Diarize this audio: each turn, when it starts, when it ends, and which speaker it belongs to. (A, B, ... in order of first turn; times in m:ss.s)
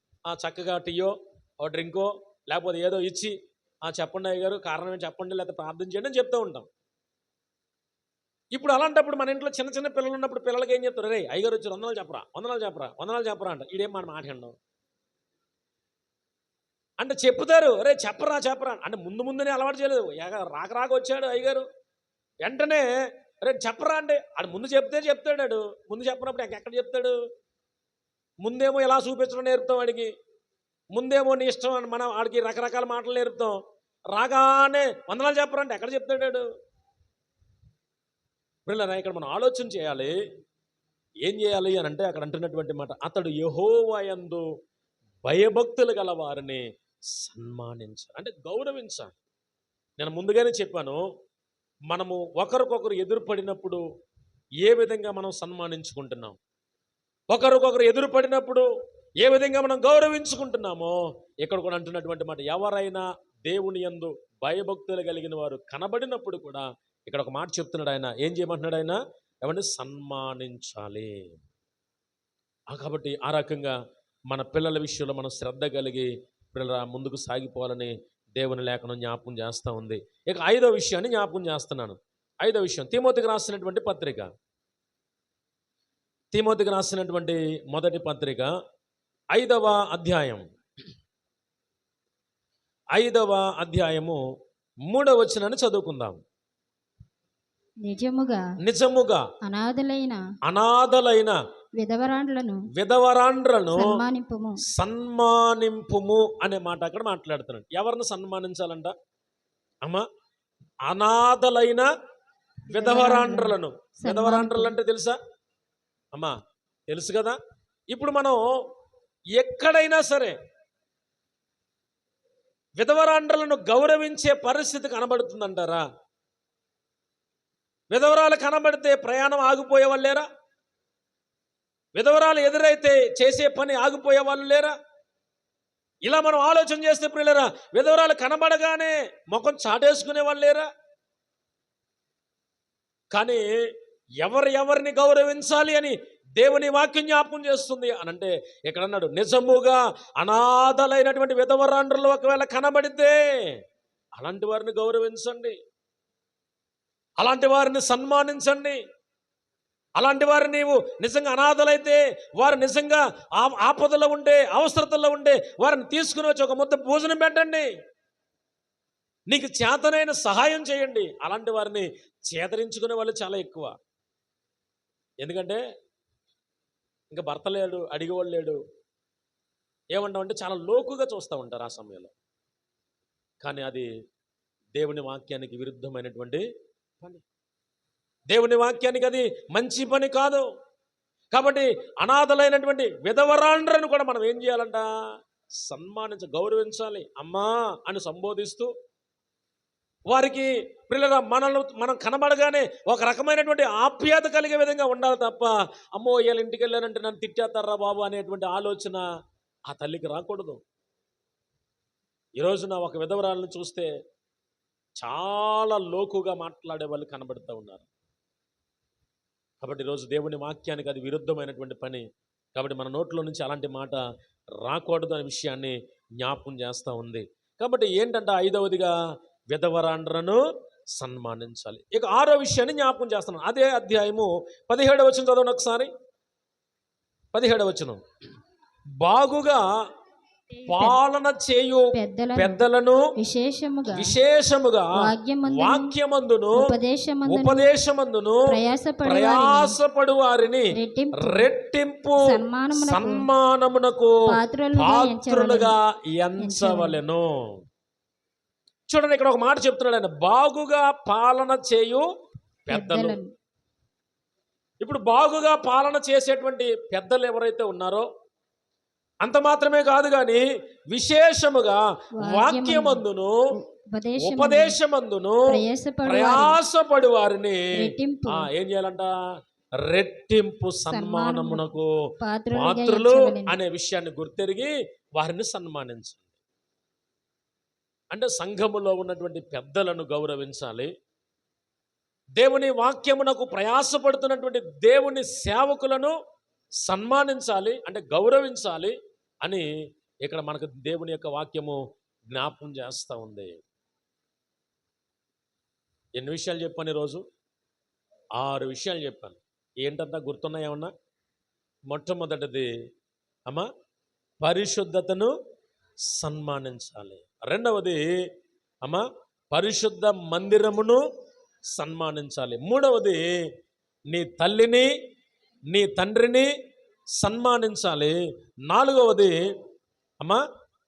0:00.3-0:06.7 A
0:08.5-0:14.5 A
0:17.0-0:21.6 A
0:22.4-0:22.9 A
0:23.4-0:27.2 A
0:28.4-0:30.1 A
0:30.9-0:33.6 A
0:34.1-0:36.5 A
0:38.6-0:40.1 A
0:41.2-0:44.4 A
0:45.2-0:46.6 A
0:47.2-0:49.1 A
0:50.0-0:51.0 A
0:51.9-0:53.8 A
0:54.6-0:56.4 A
0:57.3-0:58.7 A
0:59.2-1:11.2 A
1:12.7-1:13.8 A
1:14.3-1:24.3 A
1:26.3-1:28.5 A
1:29.3-1:30.4 A
1:32.9-1:34.2 A
1:34.9-1:36.2 A
1:37.8-1:38.5 B
1:38.6-1:39.2 A
1:39.4-1:40.2 B
1:40.4-1:41.4 A
1:41.8-1:42.7 B
1:42.7-1:44.0 A
1:43.7-1:44.6 B
1:44.7-1:48.9 A
1:50.8-1:51.9 A
1:52.7-1:55.2 A
1:52.7-1:54.7 B
1:56.9-1:57.4 A
1:57.9-1:58.6 A
1:59.3-2:00.4 A
2:02.8-2:05.8 A
2:07.9-2:10.2 A
2:12.0-2:14.7 A
2:16.0-2:20.7 A
2:23.1-2:23.4 A
2:24.2-2:33.6 A
2:34.2-2:35.6 A
2:37.2-2:38.8 A
2:40.0-2:47.7 A
2:49.3-2:53.7 A
2:55.2-2:55.6 A
2:57.1-2:58.6 A
2:59.9-3:02.1 A
3:03.4-3:03.9 A
3:04.8-3:06.4 A
3:08.3-3:10.4 A
3:11.3-3:14.9 A
3:15.6-3:18.7 A
3:20.1-3:29.0 A
3:29.7-3:30.6 A
3:32.4-3:33.9 A
3:35.0-3:37.8 A
3:39.6-3:44.0 A
3:44.6-3:48.9 A
3:49.5-3:50.4 A
3:51.0-3:55.9 A
3:57.3-3:58.0 A
3:59.0-3:59.7 A
4:00.7-4:03.1 A
4:00.7-4:01.0 B
4:01.9-4:02.6 B
4:03.2-4:04.1 B
4:03.9-4:06.7 A
4:04.9-4:05.9 B
4:06.5-4:07.6 B
4:07.2-4:08.5 A
4:08.5-4:09.8 B
4:09.0-4:14.2 A
4:10.7-4:11.5 B
4:12.2-4:13.2 B
4:14.3-4:15.7 B
4:14.7-4:17.5 A
4:16.4-4:17.0 B
4:18.9-4:22.0 A
4:22.6-4:23.2 A
4:22.7-4:23.3 B
4:24.8-4:28.1 A
4:29.2-4:33.4 A
4:32.2-4:34.8 B
4:34.2-4:35.5 A
4:35.5-4:36.6 B
4:36.0-4:39.1 A
4:37.8-4:38.5 B
4:39.8-4:41.9 A
4:40.9-4:41.7 B
4:42.2-4:43.6 B
4:42.5-4:46.2 A
4:48.1-4:50.9 A
4:52.4-4:56.1 A
4:56.8-4:59.7 A
5:00.2-5:01.8 A
5:02.3-5:03.6 A
5:06.2-5:07.2 A
5:08.4-5:10.9 A
5:11.9-5:12.7 A
5:14.4-5:15.3 A
5:16.2-5:18.0 A
5:18.8-5:21.0 A
5:21.7-5:23.3 A
5:24.1-5:24.9 A
5:25.7-5:26.5 A
5:27.2-5:28.2 A
5:28.7-5:29.3 A